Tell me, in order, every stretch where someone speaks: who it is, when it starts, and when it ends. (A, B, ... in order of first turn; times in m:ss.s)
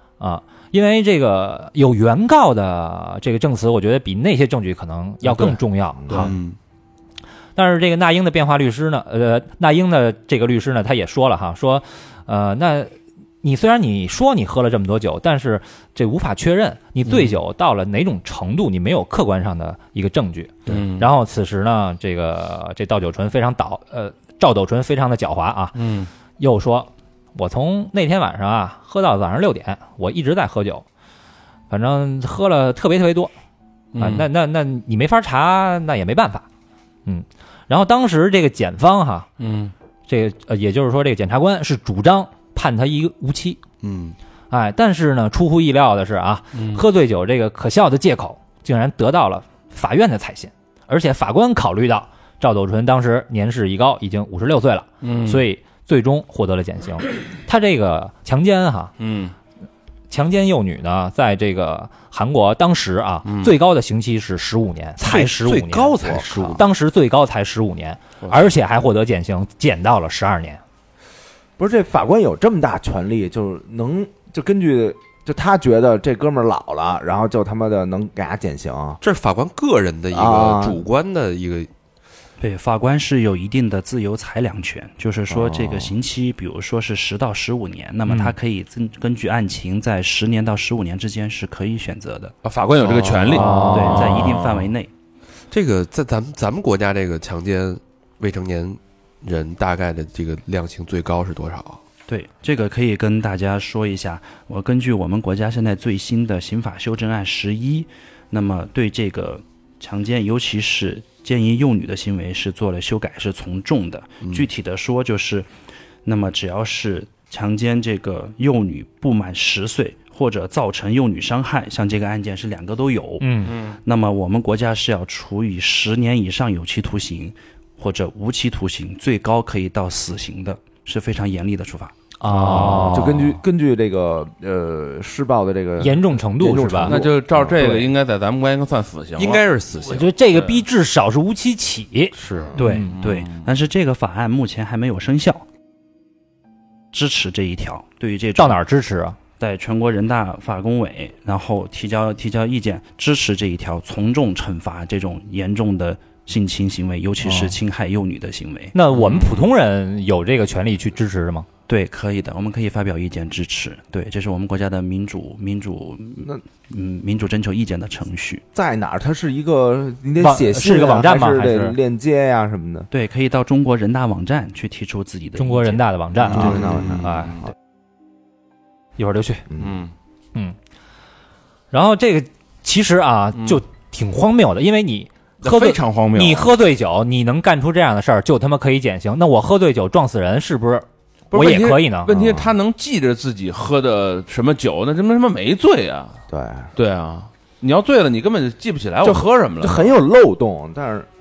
0:00.2-0:06.3 A
0:06.0-0:06.3 B
0:06.1-0:06.6 C
0:07.6-0:25.8 A
0:17.1-0:17.4 D
0:20.7-0:21.1 D
0:25.8-0:26.1 D
0:26.4-0:30.8 A
0:31.7-0:33.3 A
0:33.9-0:34.3 D
0:34.0-0:36.5 A
0:37.1-0:39.3 A
0:39.4-0:39.7 D
0:40.1-0:43.6 A
0:43.8-0:44.2 C
0:44.5-0:59.0 A
0:46.5-0:46.8 D
0:55.0-0:55.4 D
0:59.0-0:59.3 D
1:00.1-1:10.6 A
1:03.3-1:03.5 D
1:05.0-1:06.6 C
1:11.6-1:19.0 B
1:19.0-1:21.7 C
1:20.1-1:20.8 B
1:22.4-1:32.4 E
1:28.1-1:28.4 A
1:32.4-1:34.6 D
1:32.8-1:33.3 C
1:33.3-1:34.2 B
1:33.4-1:34.0 A
1:33.6-1:34.9 E
1:35.5-1:41.8 C
1:42.1-1:55.5 E
1:54.2-1:54.5 C
1:56.0-2:11.9 E
2:03.2-2:03.6 A
2:03.5-2:03.8 D
2:12.2-2:13.4 A
2:12.4-2:17.9 B
2:12.4-2:13.0 D
2:15.8-2:17.0 A
2:16.8-2:20.6 D
2:19.2-2:20.1 C
2:19.8-2:22.1 A
2:22.3-2:23.5 D
2:22.6-2:25.4 E
2:26.9-2:28.6 E
2:28.4-2:29.2 A
2:29.4-2:38.8 E
2:37.2-2:37.5 A
2:38.7-2:41.5 A
2:39.0-2:39.3 D
2:41.7-2:48.4 E
2:48.5-2:52.9 B
2:50.2-2:51.8 A
2:52.9-2:55.8 E
2:55.4-2:57.5 A
2:56.3-2:57.5 D
2:56.3-2:57.1 B
2:59.0-2:59.4 A
2:59.5-2:59.8 B
2:59.6-2:59.9 D
3:01.7-3:12.2 A
3:03.4-3:03.6 D
3:05.4-3:06.5 D
3:11.3-3:16.2 D
3:12.1-3:12.6 B
3:16.3-3:16.7 B
3:16.8-3:19.9 D
3:19.0-3:21.1 B